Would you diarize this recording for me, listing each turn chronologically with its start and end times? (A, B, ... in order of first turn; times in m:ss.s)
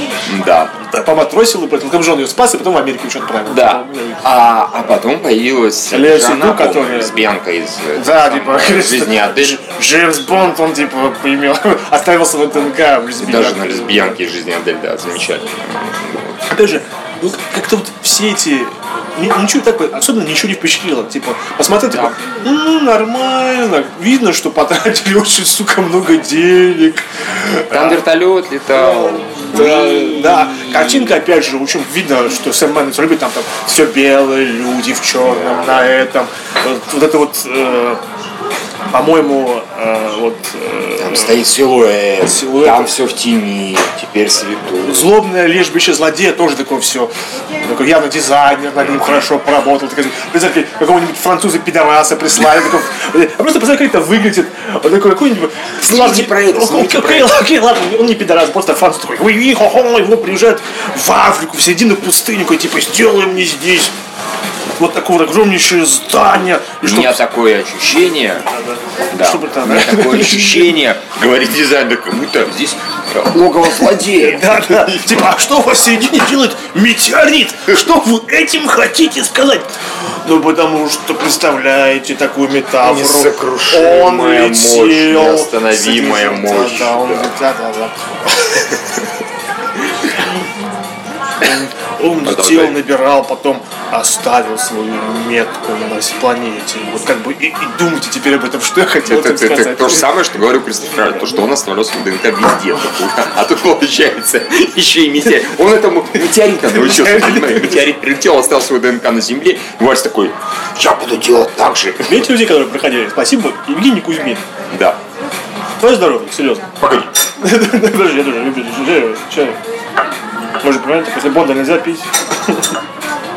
0:00.3-0:00.9 A
0:00.9-0:04.2 B
0:03.5-0:09.6 A
0:05.9-0:07.2 B
0:08.0-0:14.2 B
0:13.2-0:16.5 A
0:16.5-0:28.0 B
0:21.9-0:22.2 A
0:27.7-0:31.2 A
0:28.7-0:38.0 B
0:35.2-0:35.9 A
0:38.9-0:41.4 B
0:41.0-0:45.1 A
0:42.2-0:42.9 B
0:44.8-1:03.9 B
0:55.8-0:57.3 A
1:04.8-1:07.2 B
1:06.8-1:08.4 A
1:08.5-1:10.8 B
1:09.1-1:15.1 A
1:13.8-1:19.7 B
1:20.2-1:28.8 B
1:22.8-1:27.3 A
1:31.4-1:40.1 B
1:32.2-1:32.8 A
1:39.0-1:52.2 A
1:46.7-1:47.9 B
1:52.0-1:54.4 B
1:54.7-1:55.0 A
1:55.8-1:56.7 B
1:56.8-1:57.1 A
1:57.4-1:59.6 B
2:00.6-2:02.7 B